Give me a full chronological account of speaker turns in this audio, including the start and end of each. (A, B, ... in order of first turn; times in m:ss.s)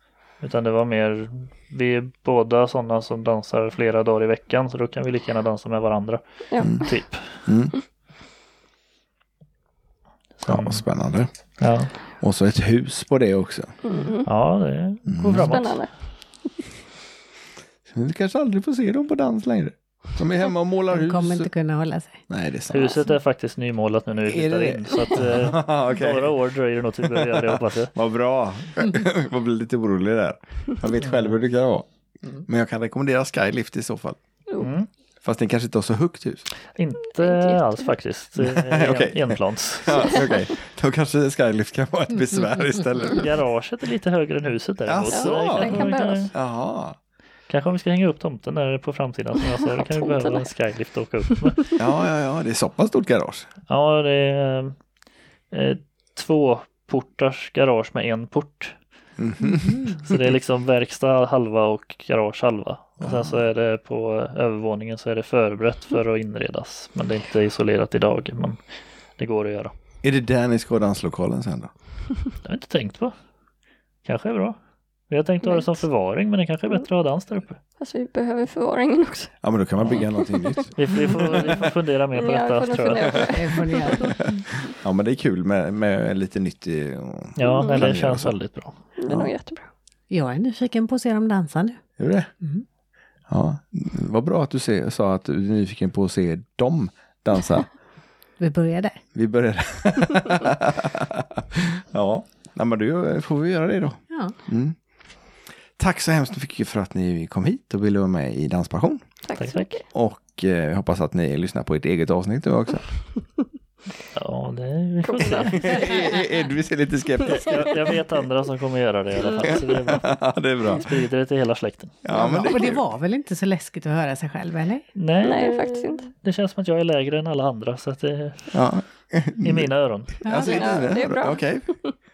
0:00.4-0:06.2 A
0:06.5-0:06.9 B
0:06.6-0:06.8 C
0:06.7-0:07.4 A
0:07.4-0:07.8 C
0:10.4-0:10.8 A
0:10.5-0:11.3 C
0:11.6-0:11.9 A
0:12.2-0:13.7 C
0:13.8-0:14.3 B
0:14.2-0:15.8 A
0:15.1-0:15.6 C
0:15.4-0:15.9 B
0:17.9-0:21.5 C
0:20.9-0:22.2 D
0:22.3-0:23.0 C
0:22.7-0:27.9 A
0:24.3-0:26.3 C
0:27.0-0:31.9 C
0:31.0-0:31.4 A
0:32.4-0:34.2 C
0:34.6-0:34.9 A
0:35.2-0:36.5 C
0:36.8-0:40.2 A
0:37.2-0:37.9 B
0:38.4-0:43.2 C
0:43.1-0:46.3 A
0:44.8-0:47.0 C
0:45.1-0:46.3 B
0:47.5-0:51.8 A
0:49.5-0:50.5 B
0:51.4-0:51.7 B
0:51.8-0:53.5 C
0:53.7-0:54.8 A
0:55.5-0:58.8 A
0:59.2-1:00.2 C
0:59.4-1:00.0 D
1:00.0-1:08.6 A
1:03.0-1:03.4 C
1:09.2-1:09.7 A
1:10.0-1:11.7 C
1:12.4-1:13.1 A
1:14.0-1:14.6 A
1:15.1-1:17.6 A
1:15.4-1:15.8 B
1:17.8-1:19.3 B
1:19.4-1:21.6 C
1:20.2-1:21.4 B
1:20.7-1:23.3 A
1:22.1-1:24.1 B
1:23.3-1:24.4 D
1:24.6-1:28.4 C
1:27.4-1:28.7 A
1:27.5-1:28.0 B
1:29.0-1:29.7 B
1:29.1-1:29.3 C
1:30.1-1:31.8 D
1:32.0-1:32.3 C
1:33.3-1:37.7 C
1:38.4-1:39.0 D
1:39.1-1:44.8 C
1:45.8-1:49.0 C
1:49.2-1:49.8 B
1:49.4-1:49.7 A
1:49.9-1:52.8 C
1:54.1-1:55.8 A
1:55.0-1:56.2 B
1:55.5-1:57.9 C
1:57.2-2:02.0 A
1:59.2-1:59.6 B
1:59.4-2:00.9 C
2:02.0-2:02.8 C
2:02.1-2:04.8 D
2:05.0-2:05.5 A
2:05.2-2:06.1 B
2:06.1-2:08.6 A
2:08.5-2:09.7 C
2:09.4-2:10.2 A
2:10.2-2:11.7 C
2:10.2-2:10.9 D
2:10.3-2:11.9 B